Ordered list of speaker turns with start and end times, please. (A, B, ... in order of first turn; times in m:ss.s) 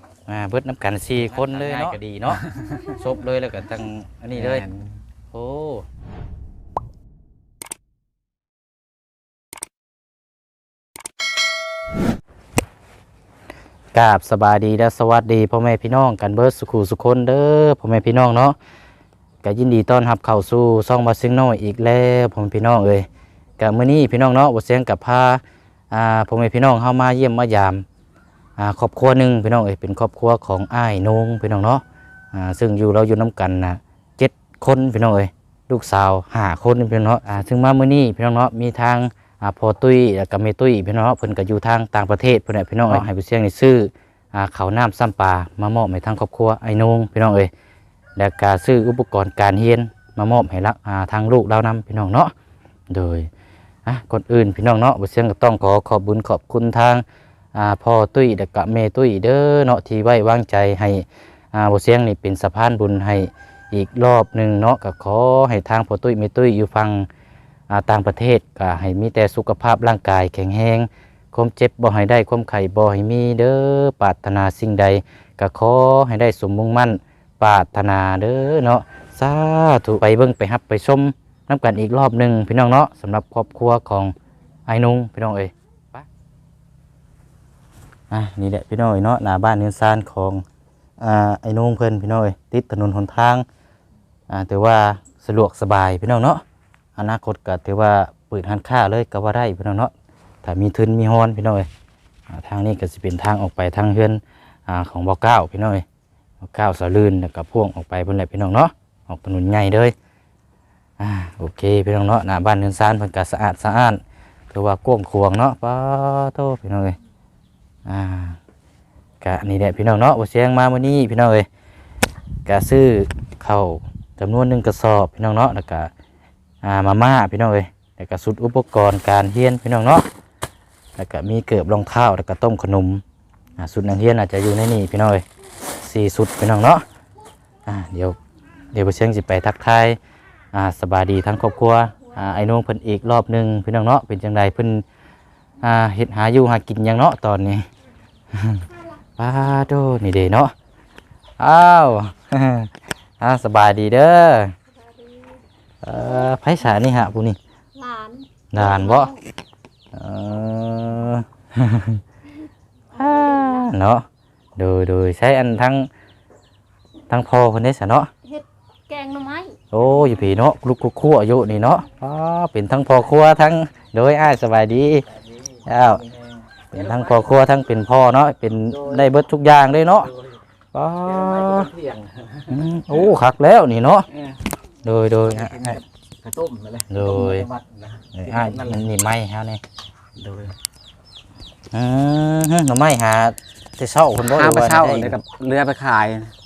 0:00.3-0:04.6 A
0:01.8-0:02.8 B
0:04.3-0:04.9 B
0:05.3-0:05.9 A
0:13.9-0:18.6 A
0:19.4-0:23.1 A
0:23.6-0:27.8 A
0:28.6-0:47.5 A
0:48.2-0:52.3 A
0:52.9-0:53.3 A
0:53.9-1:07.1 A
1:07.7-1:24.1 A
1:24.7-1:26.1 A
1:28.1-1:30.4 A
1:31.0-1:33.4 A
1:34.3-1:36.4 A
1:37.0-1:39.9 A
1:40.4-1:41.7 A
1:42.3-1:45.8 A
1:46.4-1:49.9 A
1:51.0-1:57.0 A
1:57.9-1:58.4 A
1:59.2-2:01.5 A
2:02.5-2:05.9 A
2:06.6-2:10.1 A
2:11.0-2:13.0 A
2:13.6-2:15.2 A
2:15.8-2:16.8 A
2:17.7-2:18.2 A
2:18.7-2:20.0 A
2:20.5-2:24.8 A
2:25.6-2:27.7 A
2:28.3-2:28.7 A
2:29.2-2:30.5 A
2:31.4-2:34.6 A
2:34.8-2:35.4 C
2:35.8-2:37.4 A
2:37.8-2:39.2 C
2:38.5-2:39.1 A
2:39.9-2:42.0 A
2:43.0-2:43.7 C
2:43.0-2:44.1 A
2:44.6-2:45.9 A
2:47.1-2:48.1 A
2:48.2-2:49.6 C
2:49.7-2:55.1 A
2:55.7-2:56.0 A
2:56.7-3:00.1 A
2:56.7-2:57.2 B
2:58.7-2:59.1 B
3:00.7-3:01.7 A
3:01.0-3:02.6 B
3:02.5-3:04.1 A
3:04.1-3:04.4 B
3:04.8-3:05.8 A
3:05.2-3:08.9 B
3:06.9-3:07.5 A
3:08.1-3:09.6 A
3:10.2-3:10.6 B
3:11.7-3:15.2 A
3:14.2-3:16.3 B